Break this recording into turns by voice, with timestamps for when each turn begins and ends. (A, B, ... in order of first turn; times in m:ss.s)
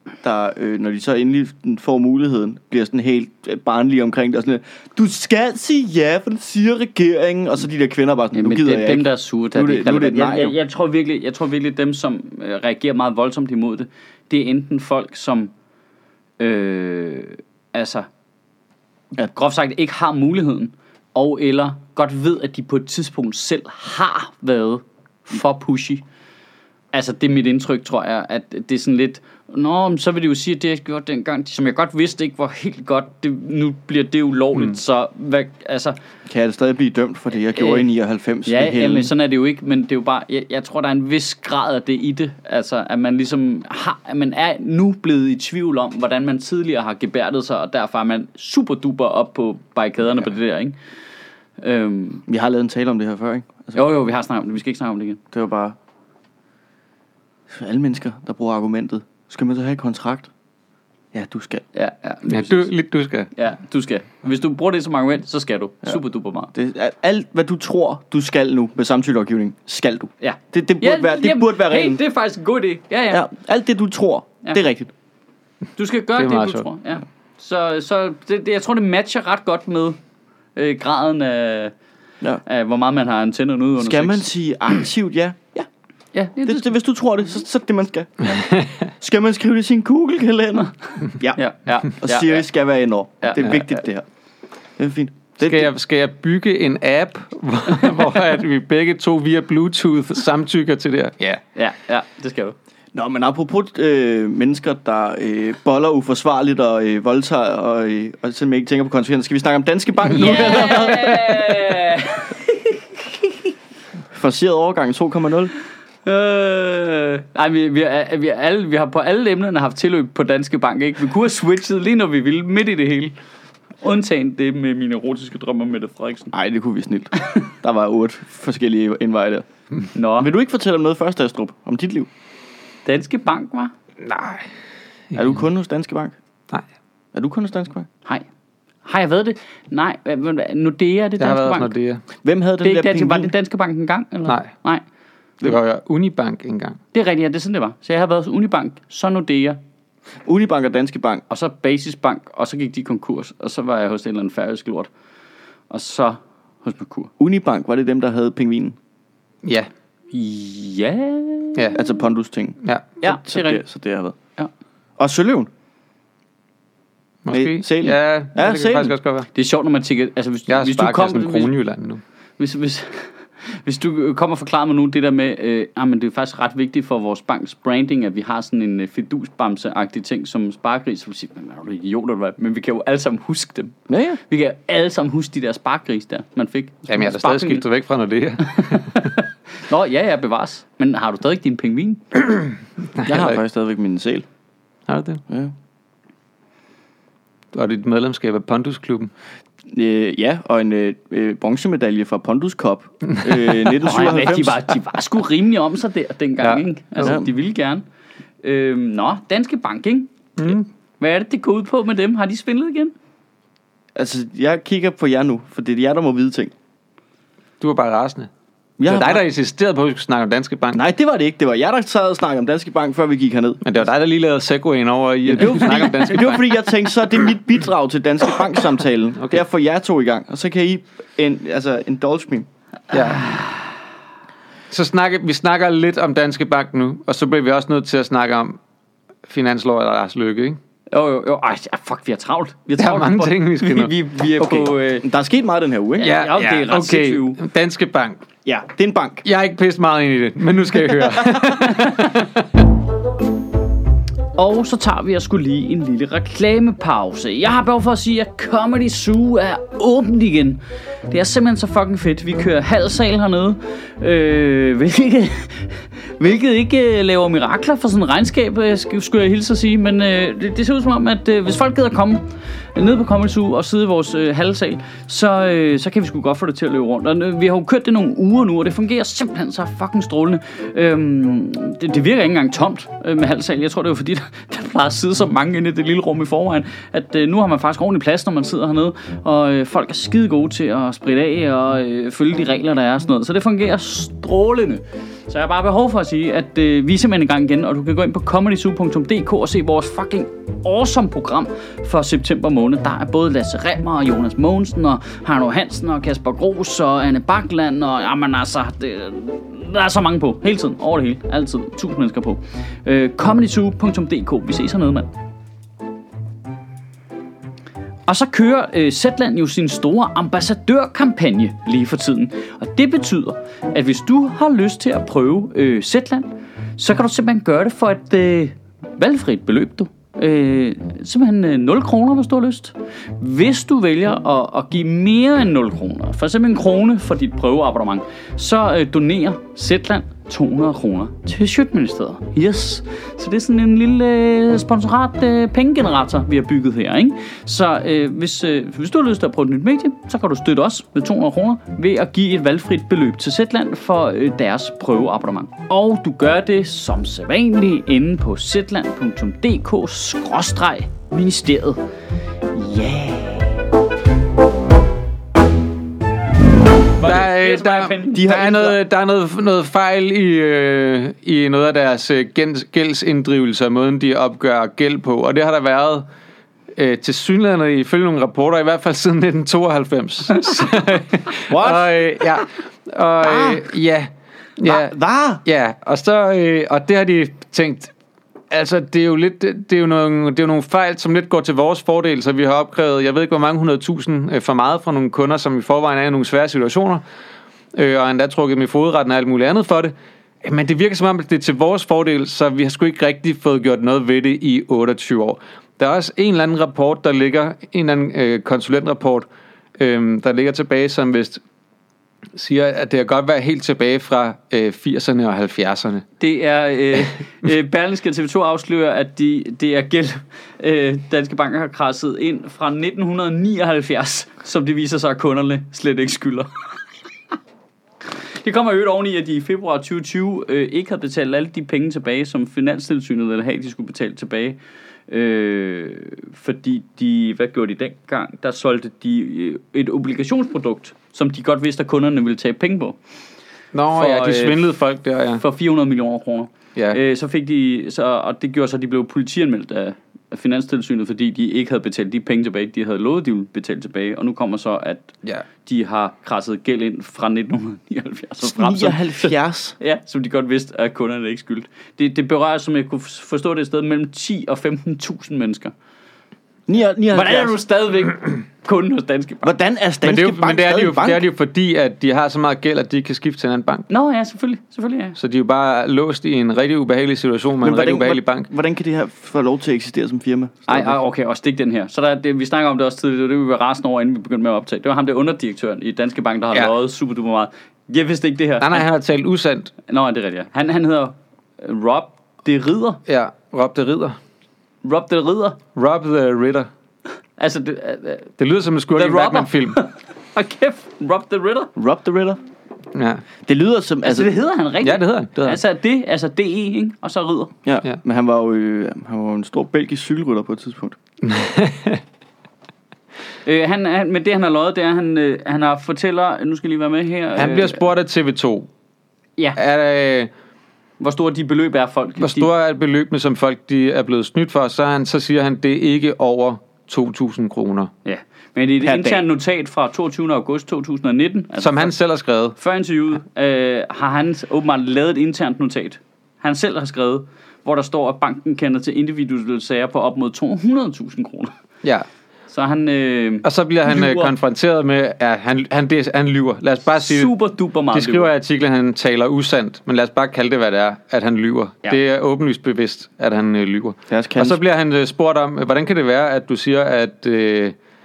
0:00.2-0:10.6 A
0:08.3-0:15.5 B
0:16.4-0:18.1 B
0:19.3-0:26.0 B
0:26.9-0:36.0 B
0:36.2-0:39.1 A
0:37.6-0:37.8 B
0:38.4-0:50.8 B
0:51.6-0:52.2 B
0:52.3-0:53.8 A
0:53.7-0:55.2 B
0:55.3-0:55.8 A
0:57.5-1:00.3 A
1:01.1-1:01.6 A
1:01.7-1:02.7 B
1:02.3-1:03.3 C
1:03.3-1:06.5 B
1:06.5-1:12.0 A
1:10.2-1:13.2 B
1:13.1-1:14.9 A
1:15.8-1:20.0 B
1:16.2-1:16.6 C
1:20.6-1:21.7 B
1:22.4-1:24.3 B
1:23.8-1:25.7 A
1:26.1-1:26.7 B
1:26.4-1:28.4 A
1:29.0-1:31.4 A
1:31.4-1:32.4 B
1:32.0-1:34.0 A
1:33.2-1:33.7 B
1:34.8-1:35.7 A
1:35.4-1:41.4 C
1:41.6-1:42.6 B
1:42.9-1:51.8 A
1:50.1-1:53.3 B
1:54.1-1:55.5 A
1:56.0-2:03.2 B
2:03.8-2:06.3 B
2:06.3-2:09.4 A
2:09.9-2:10.3 B
2:10.2-2:12.1 A
2:12.8-2:13.7 B
2:14.0-2:14.4 C
2:15.1-2:16.2 A
2:17.1-2:17.9 A
2:18.8-2:21.7 B
2:21.2-2:22.0 C
2:22.2-2:23.3 A
2:22.6-2:24.8 B
2:25.4-2:26.8 C
2:26.9-2:29.6 B
2:30.2-2:31.2 A
2:31.3-2:34.9 B
2:35.7-2:37.1 B
2:37.2-2:38.8 A
2:40.1-2:41.8 B
2:41.7-2:44.2 A
2:43.0-2:43.6 B
2:45.0-2:45.5 A
2:47.2-2:49.3 C
2:47.3-2:49.0 A
2:49.3-2:51.5 B
2:50.5-2:52.0 C
2:52.4-3:07.6 B
3:03.9-3:04.2 A
3:06.9-3:09.1 C
3:08.5-3:12.0 B
3:12.9-3:13.4 C
3:13.0-3:14.2 A
3:14.9-3:15.2 C
3:15.3-3:15.5 A
3:17.5-3:19.1 C
3:19.7-3:24.6 A
3:23.8-3:27.8 B
3:26.4-3:27.1 C
3:27.0-3:27.3 A
3:28.4-3:30.1 B
3:30.4-3:30.6 C
3:31.0-3:32.9 B
3:33.9-3:36.5 A
3:37.6-3:38.3 C
3:38.8-3:39.2 A
3:38.8-3:40.8 C
3:40.7-3:43.6 A
3:43.6-3:46.6 C
3:45.3-3:52.5 A
3:52.9-3:53.3 C
3:53.2-3:53.5 B
3:54.7-3:58.6 C
3:59.3-4:00.6 C
4:00.9-4:05.1 B
4:02.8-4:04.6 C
4:05.0-4:06.2 A
4:06.0-4:07.4 B
4:06.0-4:08.2 C
4:08.4-4:09.2 A
4:09.2-4:12.4 C
4:14.3-5:15.1 B
5:18.1-6:01.8 B
6:02.5-6:03.6 B
6:07.0-6:08.5 B
6:07.0-6:16.0 C
6:08.1-6:08.8 A
6:16.7-6:27.9 C
6:21.5-6:22.0 A
6:23.2-6:23.7 A
6:24.6-6:25.4 A
6:28.5-6:37.0 C
6:37.7-6:49.3 C
6:49.8-6:51.4 C
6:52.3-6:56.0 C
6:56.2-7:06.5 B
7:08.4-7:14.6 B
7:15.1-7:23.0 B
7:23.7-7:25.4 C
7:23.9-7:24.7 B
7:25.4-7:45.7 B
7:38.4-7:39.8 A
7:46.7-7:47.6 A
7:47.1-7:49.5 B
7:49.4-7:51.2 A
7:50.0-7:53.9 C
7:53.9-7:55.2 B
7:55.2-7:58.5 C
7:57.6-8:00.9 A
8:00.7-8:08.8 B
8:08.6-8:09.7 C
8:09.8-8:13.0 B
8:13.1-8:14.2 C
8:14.8-8:15.6 B
8:15.8-8:16.7 C
8:17.4-8:18.3 B
8:18.4-8:19.8 C
8:18.9-8:21.7 B
8:21.8-8:22.4 A
8:22.9-8:23.2 C
8:23.4-8:24.3 A
8:24.0-8:27.5 B
8:24.8-8:25.6 C
8:27.6-8:31.0 A
8:31.2-8:32.0 C
8:33.4-8:37.8 B
8:37.4-8:38.7 C
8:39.6-8:40.3 C
8:41.0-8:42.5 B
8:42.2-8:47.9 C
8:48.0-8:51.9 B
8:48.8-8:49.2 A
8:51.6-8:52.6 C
8:52.6-9:01.5 B
9:02.5-9:04.3 B
9:03.4-9:07.3 C
9:07.0-9:08.3 B
9:07.9-9:17.8 C
9:14.1-9:14.6 A